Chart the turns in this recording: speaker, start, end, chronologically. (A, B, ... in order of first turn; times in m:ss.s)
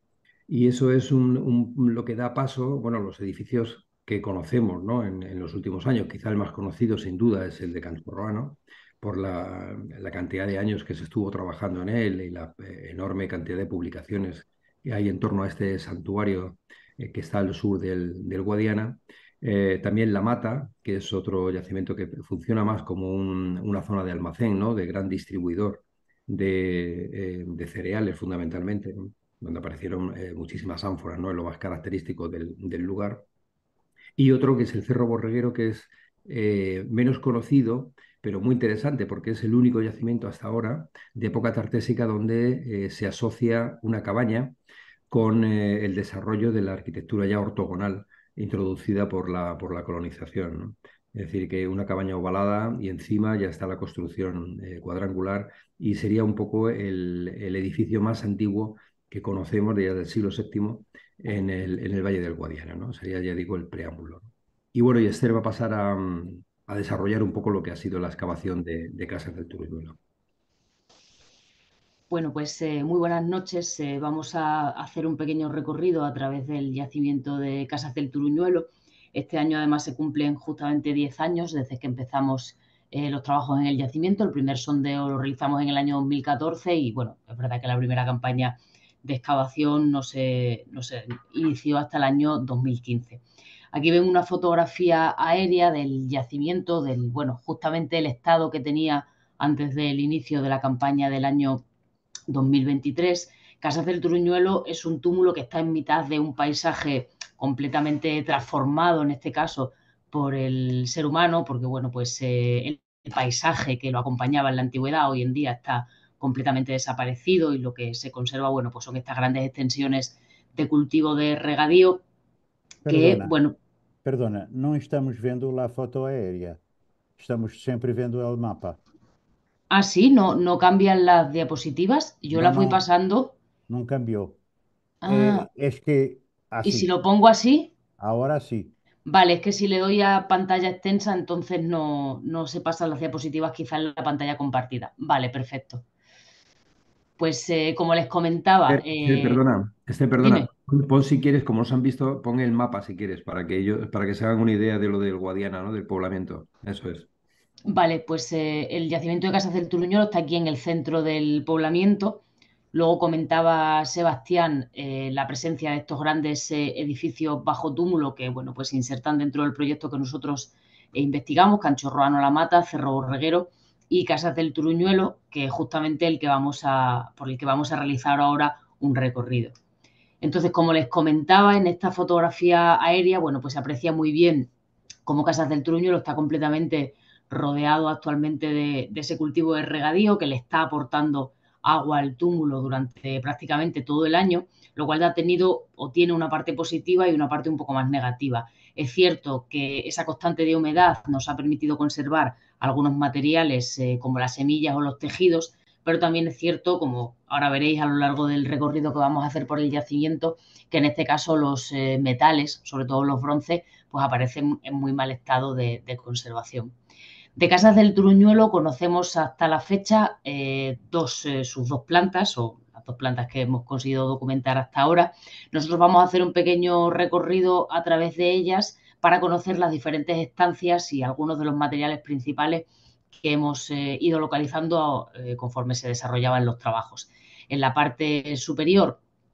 0:00.5-0:33.2 A
0:34.2-0:44.6 A
0:45.1-1:10.0 A
1:12.1-1:33.2 B
1:33.7-1:41.6 B
1:42.3-2:02.0 B
2:02.8-2:03.4 C
2:02.9-2:03.6 B
2:04.0-2:06.6 C
2:07.2-2:08.8 C
2:09.7-2:13.4 B
2:12.3-2:12.8 C
2:13.7-2:14.4 C
2:15.0-2:15.5 B
2:15.0-2:16.9 C
2:16.6-2:17.7 B
2:18.0-2:18.7 C
2:19.1-2:25.8 B
2:27.2-2:29.4 B
2:28.7-2:37.1 A
2:30.2-2:30.5 B
2:37.7-2:59.5 B
3:00.2-3:04.5 B
3:05.1-3:36.7 B
3:37.4-3:59.0 B